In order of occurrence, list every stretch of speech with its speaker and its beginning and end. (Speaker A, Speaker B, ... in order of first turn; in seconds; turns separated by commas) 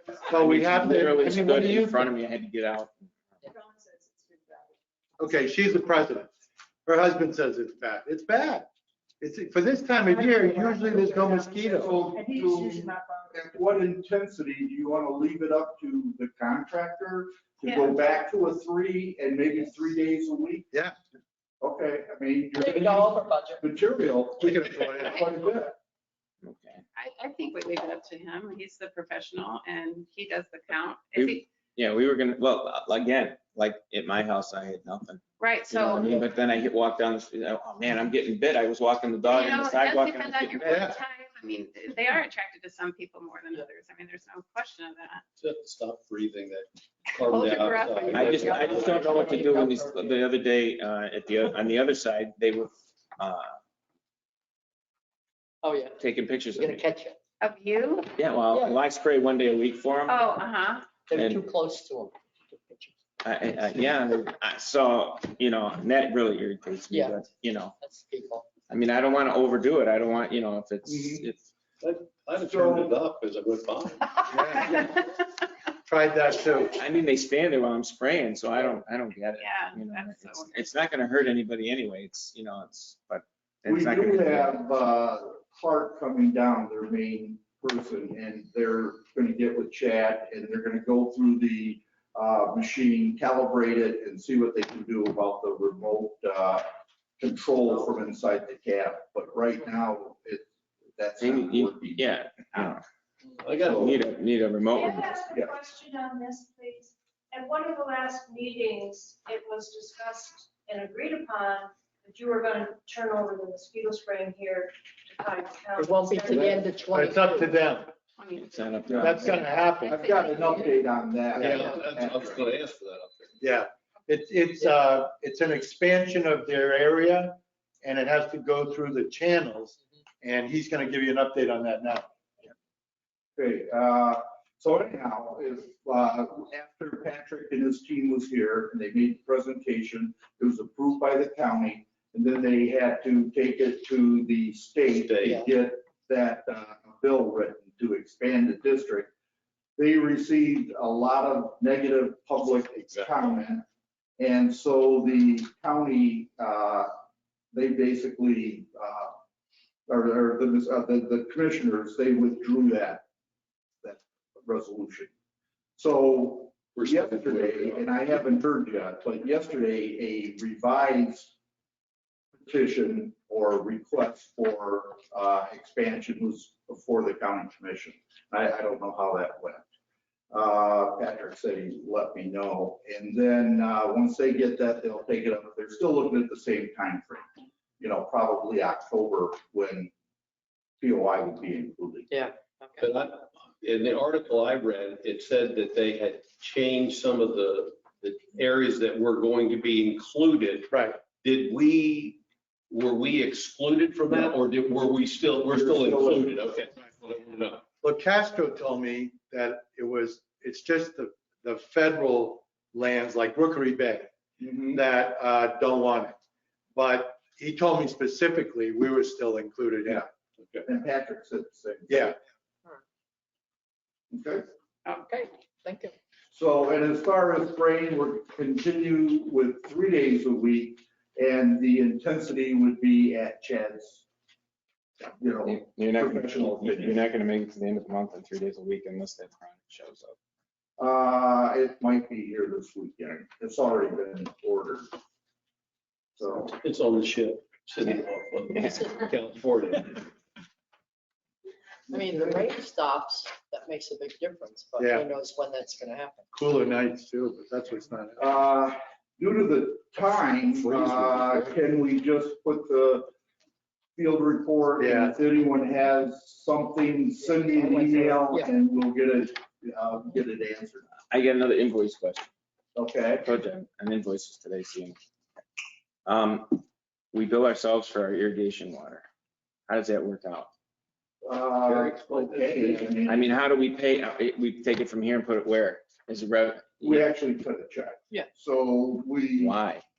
Speaker A: 0.3-2.1, Speaker B: 0.3-3.4, Speaker C: 3.6-4.6, Speaker A: 5.2-6.3, Speaker A: 6.9-8.7, Speaker A: 9.2-12.0, Speaker C: 10.2-10.8, Speaker D: 11.7-20.7, Speaker C: 12.3-12.9, Speaker E: 17.7-17.9, Speaker D: 21.6-25.7, Speaker F: 22.6-23.7, Speaker A: 24.4-25.3, Speaker B: 26.4-26.8, Speaker E: 26.9-31.5, Speaker B: 31.2-40.9, Speaker E: 35.4-36.1, Speaker E: 39.3-45.2, Speaker A: 40.7-41.0, Speaker G: 45.4-48.9, Speaker E: 47.2-49.3, Speaker B: 48.1-53.6, Speaker F: 48.2-50.2, Speaker F: 55.6-56.0, Speaker B: 56.0-56.8, Speaker F: 56.5-57.2, Speaker E: 57.4-58.1, Speaker B: 58.2-60.3, Speaker F: 58.5-58.8, Speaker E: 60.1-60.9, Speaker F: 61.1-63.0, Speaker B: 61.1-61.4, Speaker B: 63.2-67.7, Speaker F: 66.9-67.2, Speaker F: 67.8-68.5, Speaker B: 68.7-71.5, Speaker D: 70.9-71.3, Speaker G: 71.8-74.1, Speaker D: 72.4-72.9, Speaker A: 74.3-75.0, Speaker A: 75.9-76.8, Speaker B: 76.8-84.6, Speaker E: 79.4-80.7, Speaker D: 83.7-96.7, Speaker D: 97.2-102.0, Speaker B: 101.2-102.8, Speaker G: 103.4-104.0, Speaker D: 103.6-104.0, Speaker B: 103.7-105.2, Speaker C: 104.7-116.5, Speaker F: 115.8-117.5, Speaker A: 115.9-117.9, Speaker E: 118.2-120.8, Speaker B: 118.5-119.4, Speaker D: 118.9-119.2, Speaker A: 119.0-120.0, Speaker D: 119.8-122.4, Speaker G: 121.7-123.3, Speaker A: 123.4-132.1, Speaker D: 133.4-149.1, Speaker G: 144.9-145.3, Speaker D: 149.8-153.7, Speaker G: 152.7-153.1, Speaker D: 154.2-156.9, Speaker D: 157.5-159.2, Speaker D: 159.9-163.1, Speaker D: 163.8-165.1, Speaker D: 165.8-171.3, Speaker G: 166.8-168.0, Speaker D: 172.4-179.7, Speaker D: 180.3-189.9, Speaker D: 190.8-192.1, Speaker F: 192.1-192.9, Speaker G: 192.8-207.7, Speaker A: 200.7-201.0, Speaker D: 205.5-206.6, Speaker A: 207.8-214.1, Speaker D: 214.4-214.8, Speaker A: 214.7-216.2, Speaker A: 216.7-220.6, Speaker D: 220.6-222.2, Speaker A: 221.9-222.2, Speaker D: 224.1-224.4, Speaker F: 224.9-225.9, Speaker D: 226.3-234.0, Speaker D: 235.0-237.0, Speaker B: 235.4-240.2, Speaker D: 240.8-244.9, Speaker D: 246.2-246.6, Speaker G: 246.6-250.1, Speaker F: 248.5-249.2, Speaker D: 251.9-252.4, Speaker F: 251.9-256.3, Speaker A: 254.8-255.1, Speaker A: 256.3-258.3, Speaker D: 258.2-263.1, Speaker D: 264.0-270.9, Speaker A: 264.8-265.1, Speaker F: 267.2-268.5, Speaker B: 271.1-272.3, Speaker D: 272.8-273.3, Speaker B: 273.2-275.0, Speaker B: 276.1-276.6, Speaker B: 277.1-279.1, Speaker B: 279.7-280.5, Speaker D: 281.2-283.3, Speaker G: 281.7-283.0, Speaker B: 283.1-287.1, Speaker D: 286.8-289.6, Speaker B: 289.4-289.8